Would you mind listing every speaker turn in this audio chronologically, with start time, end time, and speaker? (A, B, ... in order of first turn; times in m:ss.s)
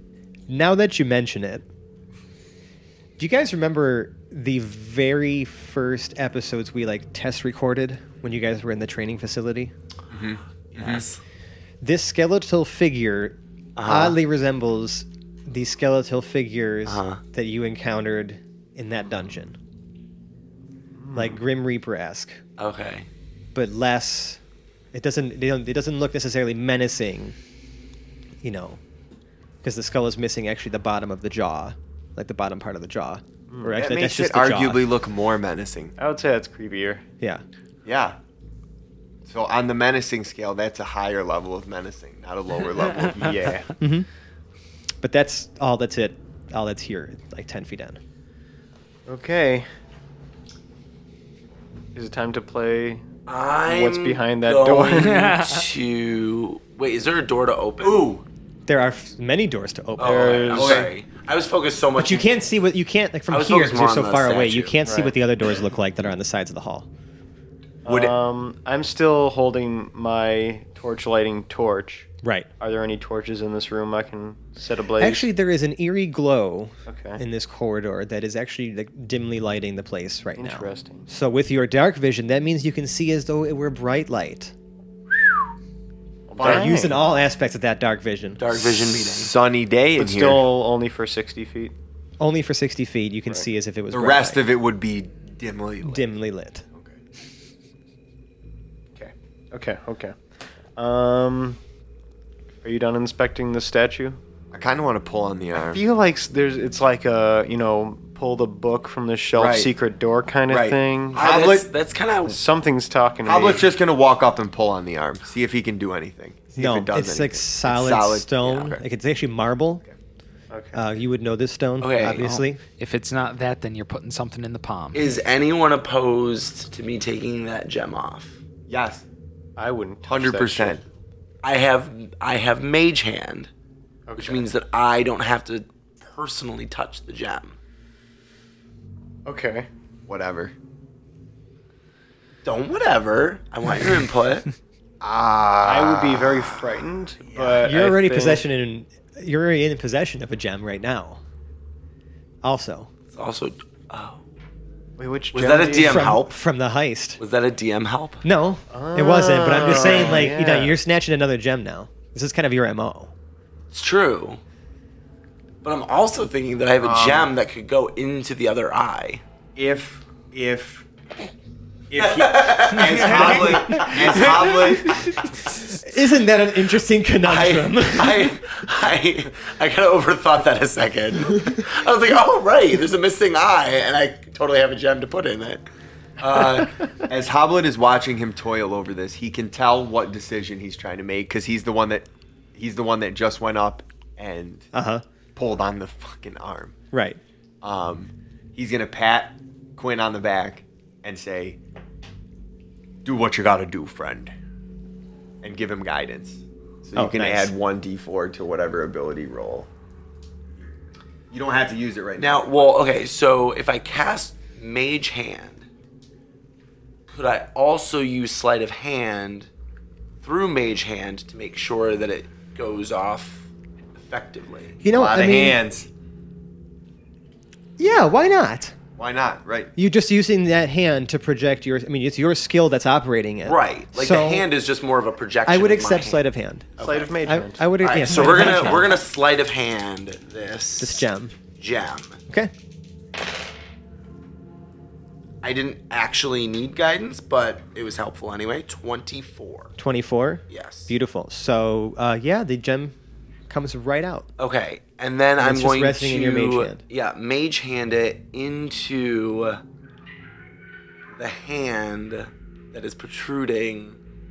0:00.5-0:01.6 A
0:03.2-0:09.7 A
0:10.1-0:11.0 B
0:10.7-0:11.2 C
0:11.8-0:19.6 A
0:13.8-0:14.2 C
0:16.9-0:17.2 C
0:21.0-0:21.4 D
0:21.1-0:22.4 A
0:22.6-0:23.1 C
0:23.5-0:24.4 A
0:24.9-0:27.4 A
0:28.4-0:28.8 A
0:29.6-0:34.9 A
0:33.5-0:33.8 D
0:33.7-0:35.9 B
0:36.0-0:37.0 D
0:37.8-0:38.2 B
0:39.2-0:43.5 B
0:43.1-0:43.7 D
0:43.8-0:44.1 A
0:45.0-0:48.0 A
0:49.1-0:49.7 D
0:51.9-0:53.1 D
0:53.3-0:58.1 C
0:53.6-0:55.3 D
0:55.0-0:55.6 E
0:57.8-0:58.2 B
0:58.7-1:00.5 A
1:00.0-1:02.3 C
1:00.0-1:00.8 D
1:00.5-1:00.9 B
1:02.0-1:06.9 A
1:03.3-1:04.8 C
1:04.8-1:05.1 D
1:07.8-1:12.1 D
1:07.9-1:08.2 B
1:12.2-1:12.5 A
1:12.6-1:15.2 D
1:15.0-1:24.5 A
1:16.9-1:17.2 D
1:20.4-1:21.1 D
1:26.3-1:27.0 D
1:26.4-1:27.0 B
1:26.4-1:28.4 A
1:28.4-1:29.3 C
1:28.9-1:30.5 B
1:30.0-1:31.7 D
1:32.2-1:34.4 A
1:33.9-1:36.1 B
1:35.8-1:36.6 A
1:39.0-1:40.2 D
1:40.8-1:41.6 D
1:42.6-1:44.2 D
1:44.5-1:45.8 B
1:45.7-1:51.2 D
1:49.4-1:49.7 B
1:50.5-1:51.7 B
1:51.1-1:52.4 C
1:52.2-1:53.7 D
1:53.2-1:58.8 B
1:56.6-1:59.8 A
2:00.5-2:00.8 D
2:00.7-2:02.6 A
2:01.8-2:02.2 C
2:02.2-2:05.1 E
2:04.9-2:08.4 C
2:08.7-2:09.0 B
2:09.6-2:10.8 D
2:10.1-2:10.8 B
2:11.4-2:13.5 C
2:14.1-2:14.5 D
2:14.2-2:17.6 C
2:19.2-2:19.7 D
2:20.1-2:20.5 B
2:22.4-2:24.5 C
2:25.0-2:26.6 B
2:25.6-2:28.4 D
2:27.3-2:27.7 B
2:27.6-2:31.2 A
2:32.4-2:32.9 A
2:33.1-2:34.2 C
2:35.0-2:36.1 D
2:35.3-2:36.4 C
2:35.8-2:37.2 A
2:37.2-2:38.2 C
2:38.2-2:43.1 A
2:38.7-2:40.8 D
2:39.7-2:40.2 C
2:43.7-2:44.4 C
2:45.6-2:49.2 C
2:46.8-2:47.3 B
2:49.6-2:50.9 B
2:51.9-2:55.4 B
2:52.0-2:54.8 C
2:53.4-2:53.7 A
2:55.7-2:58.3 A
2:57.2-3:05.6 C
3:06.2-3:06.8 C
3:06.3-3:14.7 B
3:14.7-3:15.0 A
3:15.4-3:16.8 B
3:16.9-3:17.2 A
3:17.6-3:21.6 B
3:23.0-3:24.3 B
3:25.4-3:29.7 B
3:27.0-3:27.5 A
3:31.3-3:32.7 B
3:32.2-3:35.6 C
3:37.1-3:39.5 C
3:40.2-3:44.8 C
3:44.8-3:45.6 A
3:44.9-3:45.9 B
3:47.8-3:48.7 A
3:49.0-3:49.7 B
3:49.8-3:54.5 A
3:53.4-3:56.2 C
3:55.4-3:56.7 A
3:56.8-3:57.2 C
3:56.8-3:57.7 D
3:57.2-3:59.0 A
3:57.8-4:01.0 C
4:00.8-4:01.4 A
4:01.6-4:02.2 C
4:05.4-4:09.7 C
4:09.8-4:12.9 A
4:10.5-4:10.9 C
4:13.5-4:14.3 A
4:14.4-4:19.6 C
4:15.4-4:16.8 A
4:21.2-4:24.0 C